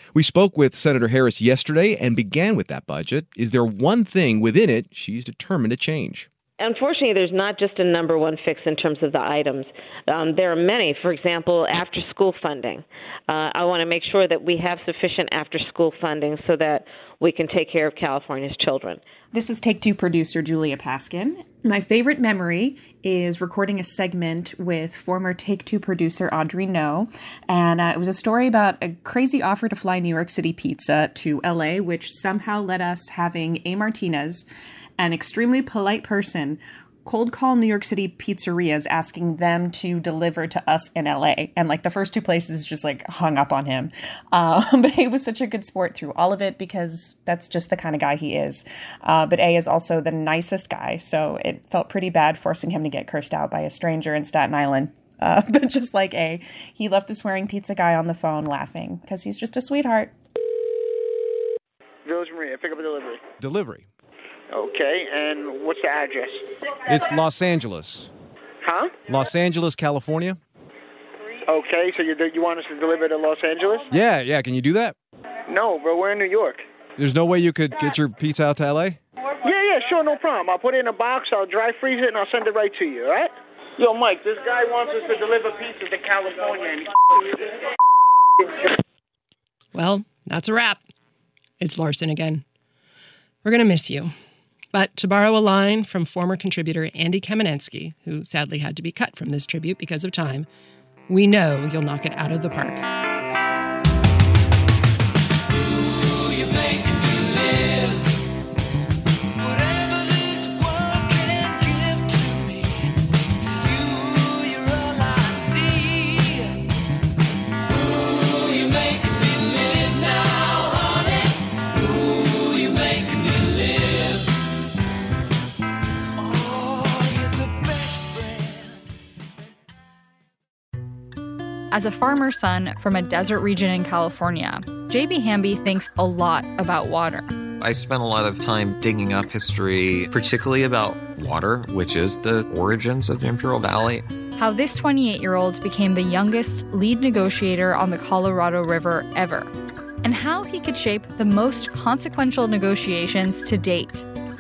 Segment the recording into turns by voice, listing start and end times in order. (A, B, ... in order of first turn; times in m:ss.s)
0:00.1-0:06.3 A
0:06.6-0:19.0 B
0:19.3-0:34.5 C
0:35.0-1:00.1 C
1:02.1-1:03.2 D
1:03.4-1:03.9 A
1:04.5-1:06.4 D
1:06.9-1:08.1 A
1:08.6-1:08.9 D
1:09.1-1:10.4 A
1:11.5-1:13.8 D
1:13.9-1:15.0 A
1:15.5-1:16.6 D
1:17.0-1:19.0 A
1:19.4-1:27.3 D
1:29.7-1:30.8 E
1:31.6-1:32.4 E
1:33.4-1:34.1 E
1:34.7-1:40.5 E
1:41.1-1:42.8 E
2:11.7-2:17.3 F
2:17.6-2:24.0 G
2:24.4-2:29.5 F
2:30.0-2:34.1 F